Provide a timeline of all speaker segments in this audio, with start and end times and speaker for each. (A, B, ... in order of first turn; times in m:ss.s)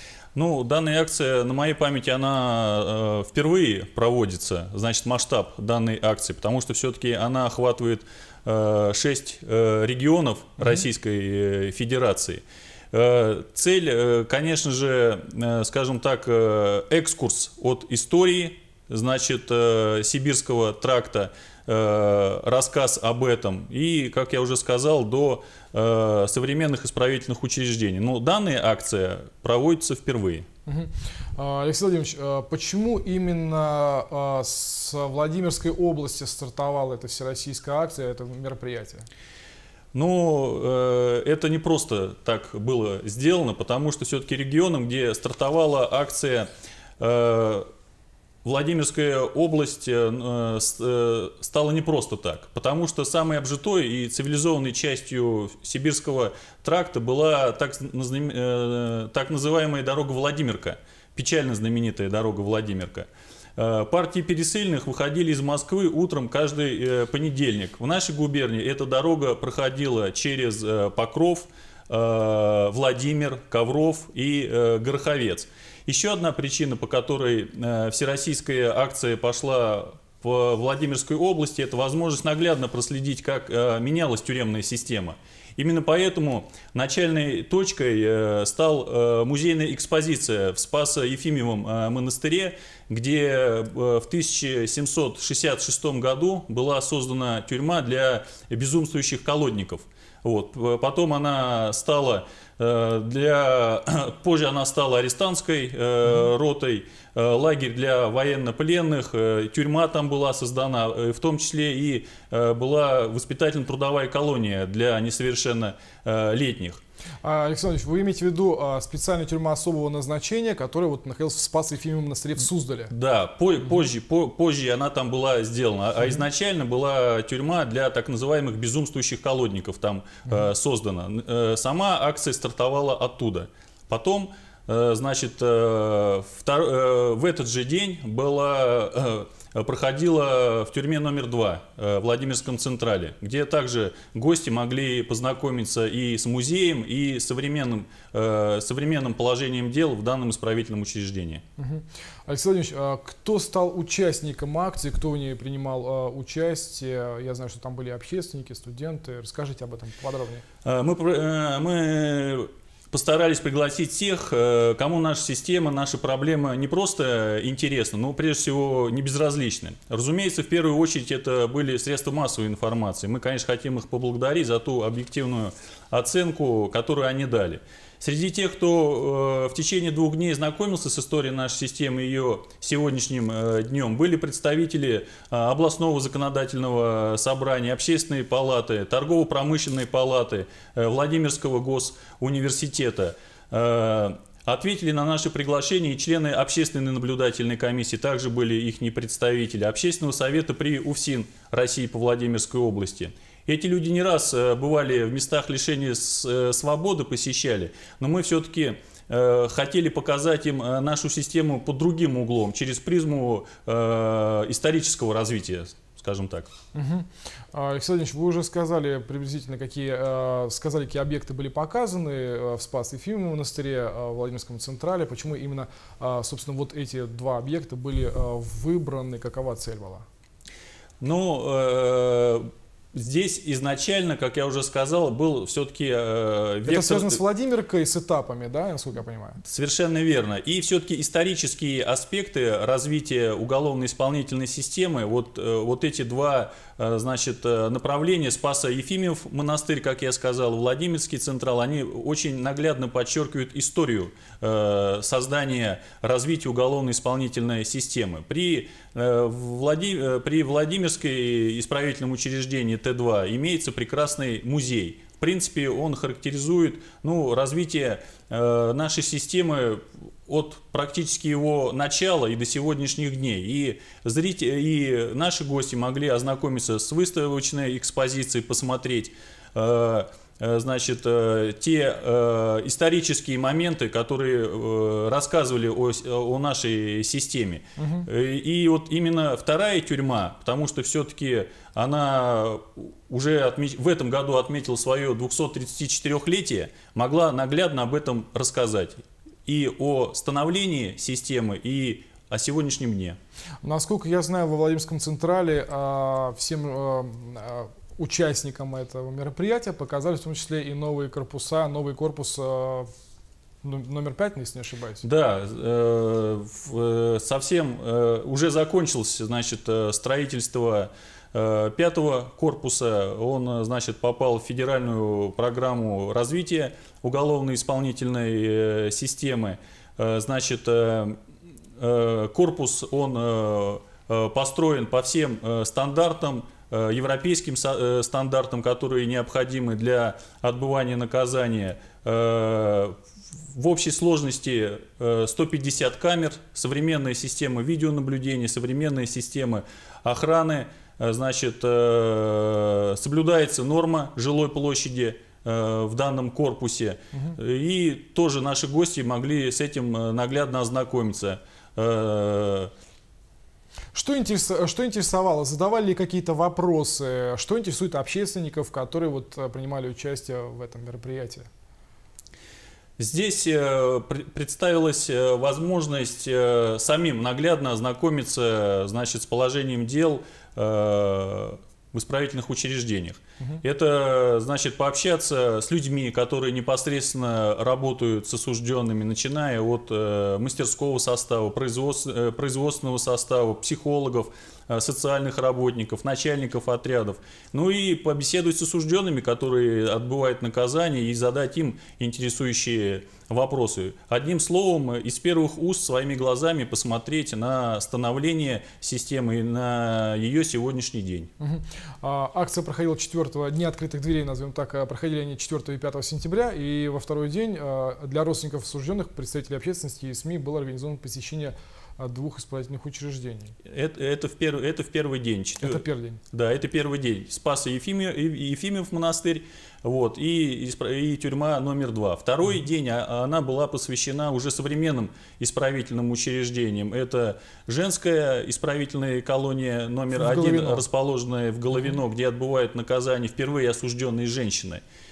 0:00.3-0:30.5 A
0:30.6-0:39.1 B
0:39.9-0:47.7 A
0:48.4-1:56.8 A
1:57.2-2:02.9 B
2:02.9-2:31.4 A
2:31.6-2:40.4 B
2:40.6-3:36.5 A
3:36.7-3:50.0 B
3:51.0-3:57.2 A
3:56.6-3:59.4 B
3:59.4-5:03.2 A
4:47.8-4:48.1 B
5:03.6-5:12.9 B
5:13.6-5:15.0 B
5:15.0-5:31.2 A
5:31.8-6:02.7 A
6:03.9-6:11.5 B
6:13.0-6:51.3 A
6:51.4-7:03.6 B
7:03.6-7:24.8 A
7:05.6-7:06.2 B
7:20.1-7:20.8 B